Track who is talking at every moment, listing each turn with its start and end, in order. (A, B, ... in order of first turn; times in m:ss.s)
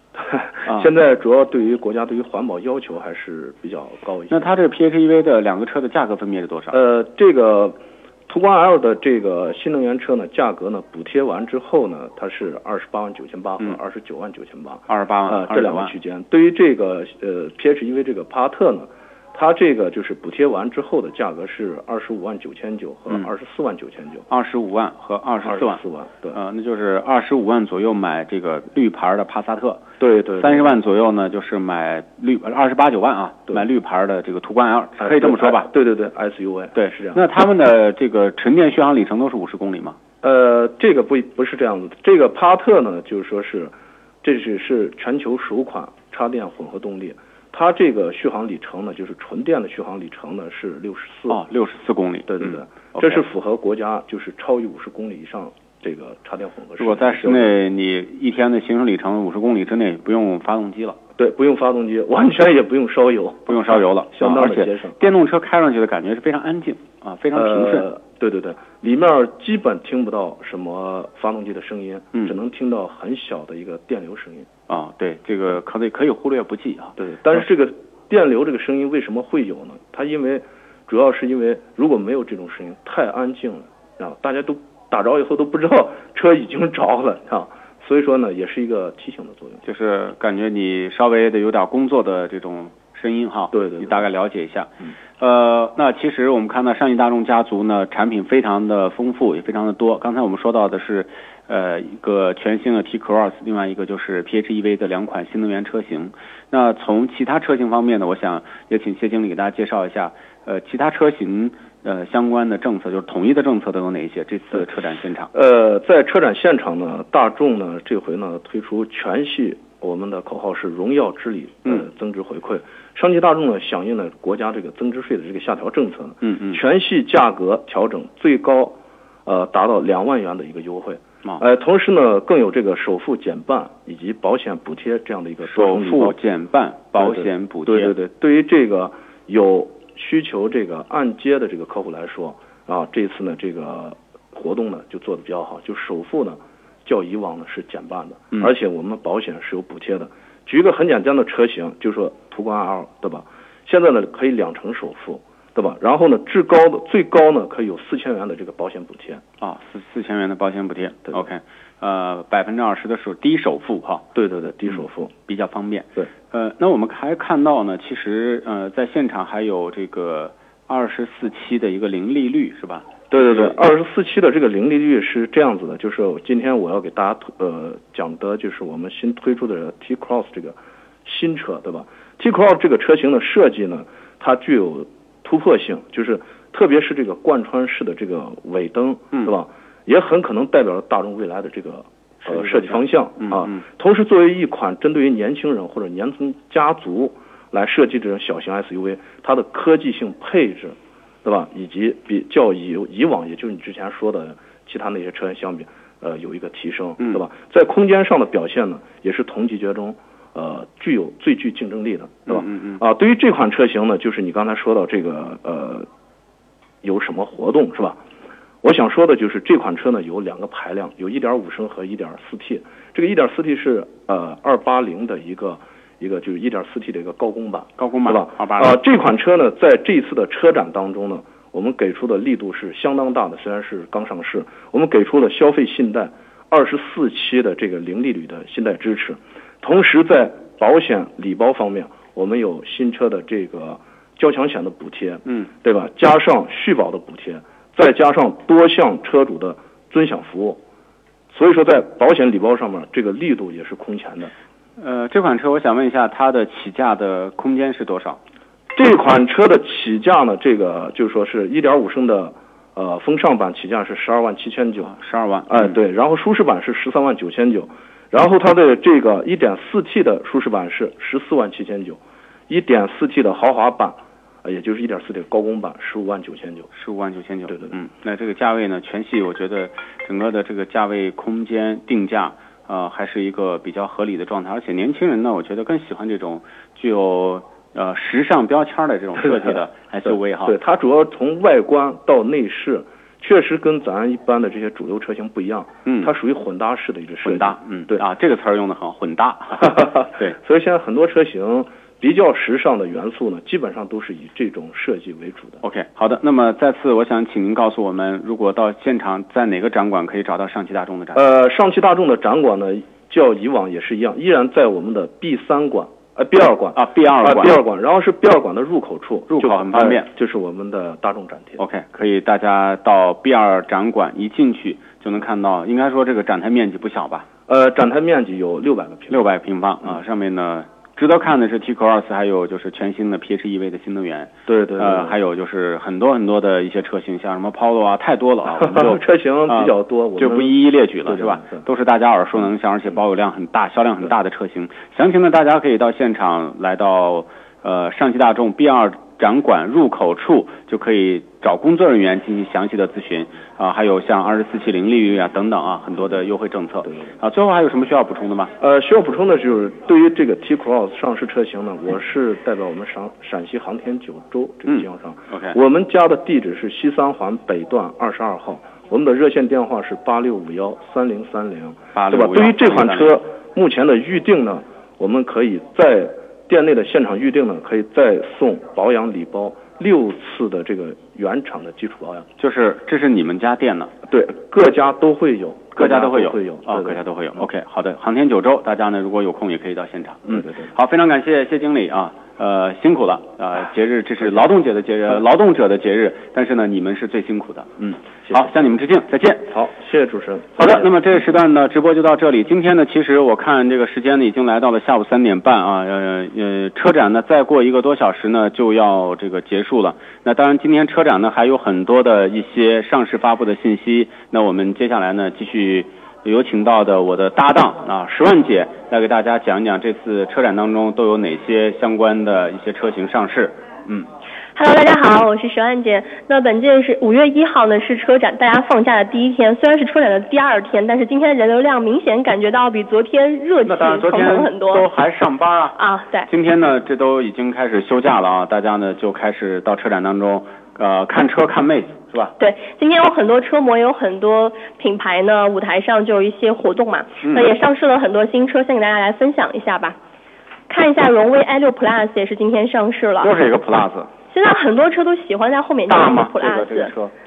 0:00.2-0:04.5 A
0:04.3-0:06.8 B
0:06.7-0:24.2 A
0:14.9-0:15.9 B
0:24.3-0:25.8 B
0:25.4-0:26.4 A
0:26.3-0:29.8 B
0:30.0-0:30.7 A
0:30.4-0:35.7 B
0:35.0-0:37.2 A
0:36.7-0:40.0 B
0:40.2-0:51.4 A
0:51.3-0:53.2 B
0:52.3-0:57.5 A
0:56.8-1:01.0 B
1:01.2-1:05.0 A
1:03.5-1:07.8 B
1:07.3-1:14.5 A
1:14.7-1:17.0 B
1:17.0-1:29.6 A
1:29.6-1:55.3 B
1:33.5-1:34.0 A
1:55.3-2:16.2 A
2:06.2-2:06.6 B
2:15.5-2:17.9 B
2:17.0-2:39.2 A
2:39.4-2:44.0 B
2:44.1-2:45.1 A
2:45.3-2:53.6 B
2:53.1-3:35.9 A
3:12.2-3:13.6 B
3:32.3-3:32.8 B
3:36.8-3:38.0 A
3:38.6-4:10.6 A
3:47.8-3:48.8 B
4:11.3-4:14.3 A
4:14.8-4:18.2 B
4:18.7-4:24.9 A
4:24.8-4:25.6 B
4:25.5-4:36.7 A
4:36.7-4:50.6 B
4:37.5-4:37.7 A
4:49.2-4:49.5 A
4:50.1-4:58.0 A
4:55.8-4:56.1 B
4:57.2-5:00.4 B
4:59.6-5:05.6 A
5:05.6-5:11.2 B
5:11.1-5:21.6 A
5:16.7-5:17.6 B
5:19.3-5:20.1 B
5:21.6-5:27.2 B
5:27.5-5:29.3 A
5:29.1-5:58.5 B
5:34.5-5:35.2 A
5:38.5-5:41.6 A
5:56.8-5:57.1 A
5:58.6-6:22.3 A
6:04.7-6:05.6 B
6:11.9-6:13.1 B
6:22.4-6:23.9 B
6:24.1-6:27.4 A
6:25.8-6:39.5 B
6:30.3-6:30.7 A
6:39.5-6:40.9 A
6:40.6-7:04.1 B
7:04.5-7:14.8 C
7:13.6-7:22.3 B
7:15.8-7:16.3 C
7:22.4-7:30.0 C
7:27.2-7:27.5 B
7:30.7-7:33.3 C
7:33.2-7:34.1 B
7:34.3-7:36.9 C
7:35.9-7:37.1 B